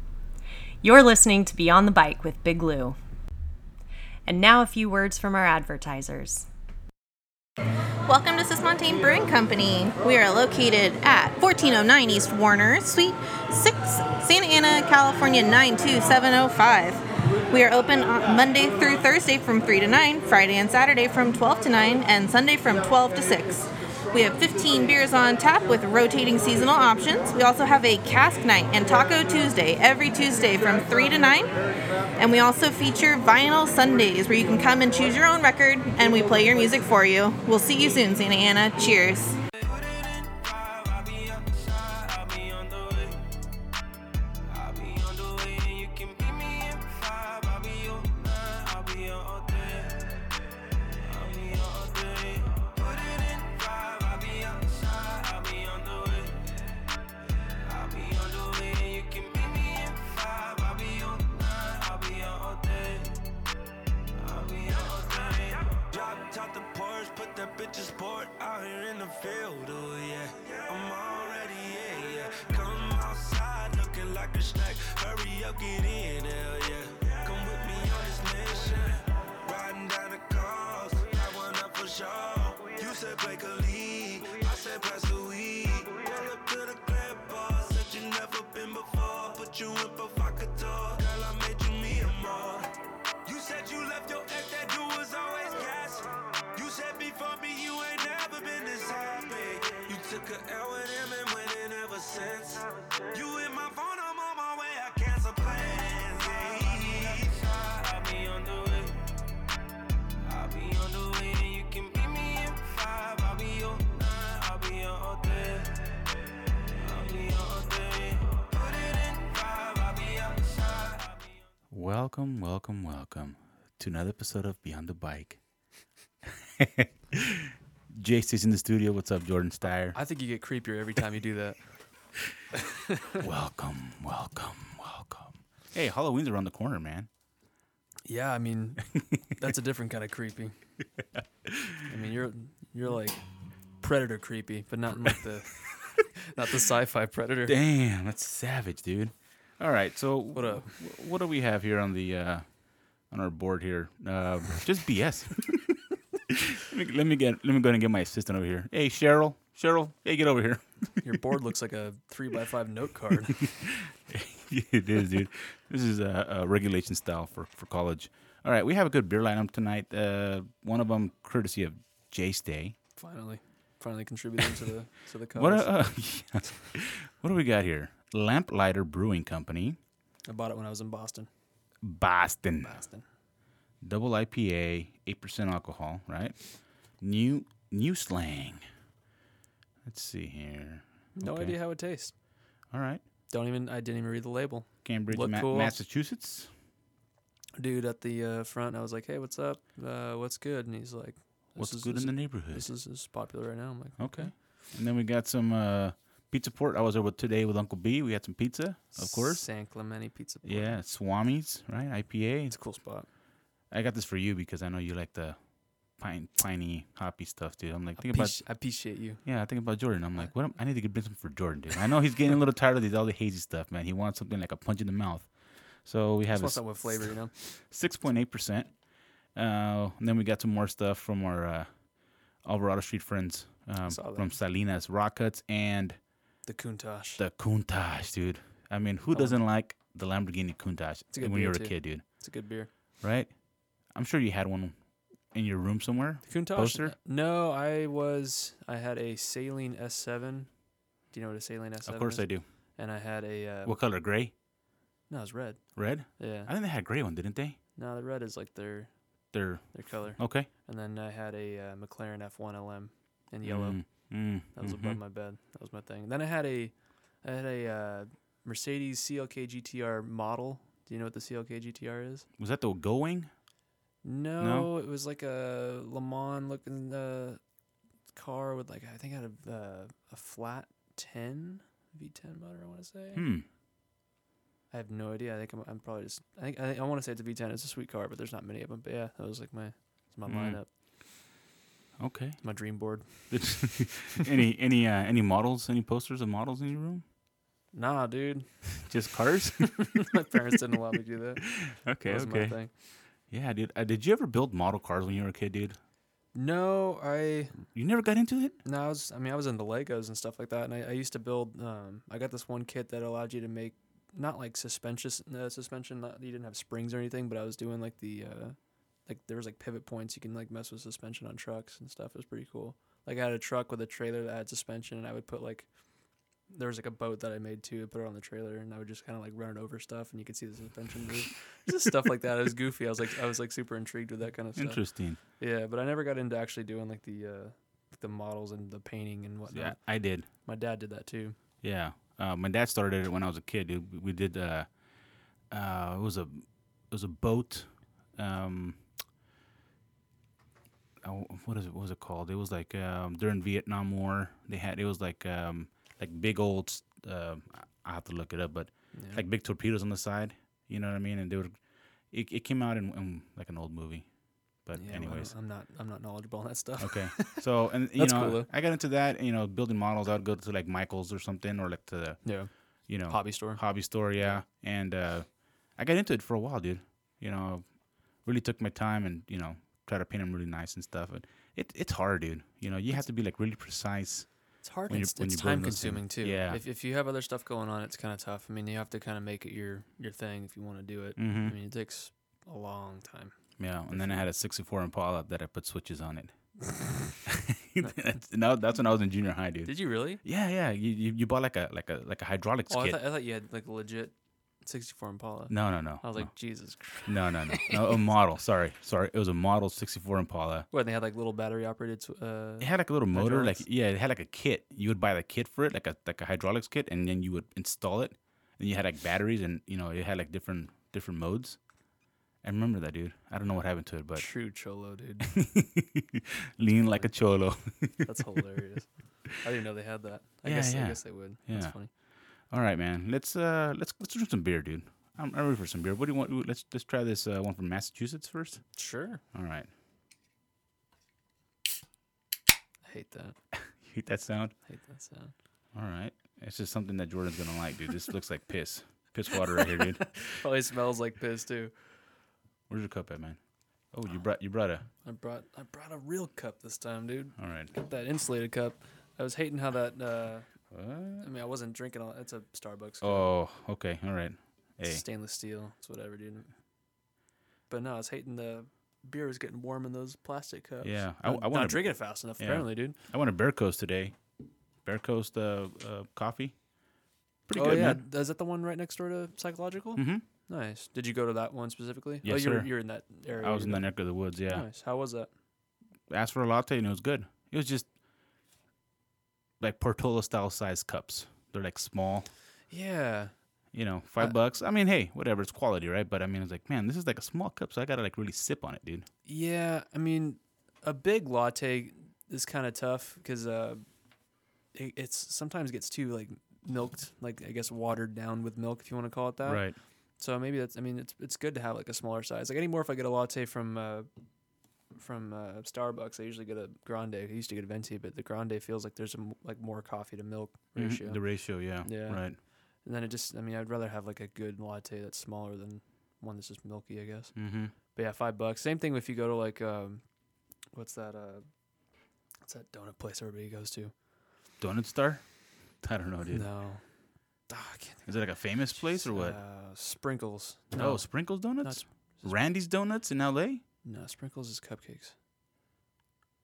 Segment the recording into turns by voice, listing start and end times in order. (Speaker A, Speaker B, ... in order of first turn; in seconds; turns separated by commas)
Speaker A: 0.8-3.0, Speaker A: 4.3-6.5, Speaker B: 8.1-31.6, Speaker B: 32.1-39.4, Speaker C: 39.5-43.3, Speaker C: 44.5-50.1, Speaker C: 51.0-56.5, Speaker C: 57.5-63.2, Speaker C: 64.1-92.7, Speaker C: 93.2-109.1, Speaker C: 110.2-115.8, Speaker C: 116.8-121.3, Speaker D: 121.7-125.4, Speaker D: 126.2-130.0, Speaker E: 129.9-131.6, Speaker E: 132.6-133.2, Speaker D: 133.2-137.1, Speaker E: 138.1-140.5, Speaker D: 141.0-141.9, Speaker E: 141.9-143.2, Speaker E: 143.8-147.6, Speaker D: 147.5-152.5, Speaker E: 150.3-150.8, Speaker D: 153.0-161.2, Speaker E: 161.0-163.5, Speaker D: 163.4-172.8, Speaker E: 173.0-175.7, Speaker D: 175.3-179.8, Speaker E: 180.3-181.3, Speaker D: 181.8-182.8, Speaker E: 182.6-183.1, Speaker D: 183.8-188.6, Speaker D: 189.8-191.6, Speaker E: 191.2-192.2, Speaker D: 192.7-193.0, Speaker E: 193.3-195.8, Speaker D: 194.8-196.5, Speaker E: 197.6-204.3, Speaker D: 201.6-202.7, Speaker D: 204.0-209.5, Speaker E: 209.0-210.8, Speaker D: 210.4-212.6, Speaker E: 212.5-213.1, Speaker D: 213.7-215.4, Speaker D: 215.9-218.6, Speaker E: 218.0-219.2, Speaker D: 219.2-228.8, Speaker E: 226.3-227.3, Speaker D: 229.3-231.8, Speaker D: 232.4-236.0, Speaker E: 233.8-234.3, Speaker E: 236.5-237.2, Speaker D: 237.2-242.0, Speaker E: 239.1-239.4, Speaker E: 241.1-242.7, Speaker D: 243.0-243.3, Speaker D: 243.9-244.8, Speaker D: 245.3-246.9, Speaker E: 246.2-250.5, Speaker E: 251.1-253.8, Speaker D: 251.8-252.4, Speaker D: 253.7-254.3, Speaker E: 255.1-255.7, Speaker D: 255.8-257.6, Speaker E: 256.2-256.5, Speaker E: 257.8-258.9, Speaker D: 259.3-260.5, Speaker E: 259.7-272.3, Speaker D: 263.4-265.0, Speaker D: 272.4-273.3, Speaker E: 274.0-277.4, Speaker D: 274.4-274.7, Speaker E: 278.1-283.3, Speaker D: 283.1-283.5, Speaker E: 284.7-290.7, Speaker D: 290.3-290.6, Speaker D: 292.0-292.4, Speaker E: 292.4-293.7, Speaker D: 293.3-297.0, Speaker E: 297.7-298.8, Speaker D: 298.8-300.1, Speaker E: 299.7-302.7, Speaker D: 301.5-302.7, Speaker D: 303.2-305.8, Speaker E: 306.3-307.7, Speaker D: 307.7-308.6, Speaker E: 308.6-325.7, Speaker E: 326.5-341.4, Speaker D: 334.6-335.2, Speaker D: 339.5-340.3, Speaker D: 341.6-344.7, Speaker D: 345.5-348.8, Speaker D: 351.0-364.1, Speaker E: 358.9-359.2, Speaker D: 364.6-365.3, Speaker E: 364.8-368.5, Speaker D: 366.8-386.6, Speaker E: 372.2-373.6, Speaker E: 374.2-374.4, Speaker E: 384.6-393.4, Speaker D: 391.2-391.6, Speaker D: 393.6-396.4, Speaker E: 393.9-394.3, Speaker D: 397.2-403.0, Speaker E: 399.7-400.2, Speaker E: 402.7-408.0, Speaker D: 405.5-406.3, Speaker D: 407.0-410.7, Speaker E: 410.7-413.6, Speaker D: 412.6-421.6, Speaker D: 422.4-424.3, Speaker E: 424.1-425.4, Speaker D: 425.2-428.4, Speaker E: 426.8-427.1, Speaker E: 428.0-431.9, Speaker D: 430.4-431.9, Speaker D: 432.5-438.8, Speaker E: 438.8-439.2, Speaker D: 439.3-439.7, Speaker E: 442.9-443.4, Speaker D: 443.7-444.5, Speaker E: 444.7-445.3, Speaker D: 445.7-450.4, Speaker E: 449.8-451.7, Speaker D: 452.7-453.4, Speaker D: 453.9-454.9, Speaker E: 455.0-460.5, Speaker D: 457.4-457.7, Speaker D: 460.7-461.3, Speaker E: 461.2-463.3, Speaker D: 463.0-465.0, Speaker E: 464.8-466.5, Speaker E: 467.7-473.0, Speaker D: 470.8-474.2, Speaker D: 474.9-476.6, Speaker D: 477.5-478.0, Speaker E: 477.5-483.9, Speaker D: 480.0-480.2, Speaker D: 482.2-482.7, Speaker D: 483.3-484.7, Speaker E: 484.5-485.3, Speaker D: 486.1-487.9, Speaker D: 489.6-492.3, Speaker E: 492.7-493.3, Speaker D: 493.7-499.1, Speaker E: 499.2-503.8, Speaker E: 504.7-509.7, Speaker D: 509.4-509.8, Speaker E: 510.2-514.1, Speaker E: 514.9-522.3, Speaker D: 520.8-522.4, Speaker E: 522.8-530.0, Speaker D: 527.4-527.7, Speaker E: 530.7-531.5, Speaker E: 532.5-533.9, Speaker D: 534.6-535.2, Speaker D: 535.8-536.5, Speaker E: 536.3-536.8, Speaker E: 537.5-538.1, Speaker D: 538.1-539.4, Speaker E: 538.7-542.4, Speaker D: 540.8-543.6, Speaker E: 543.8-545.1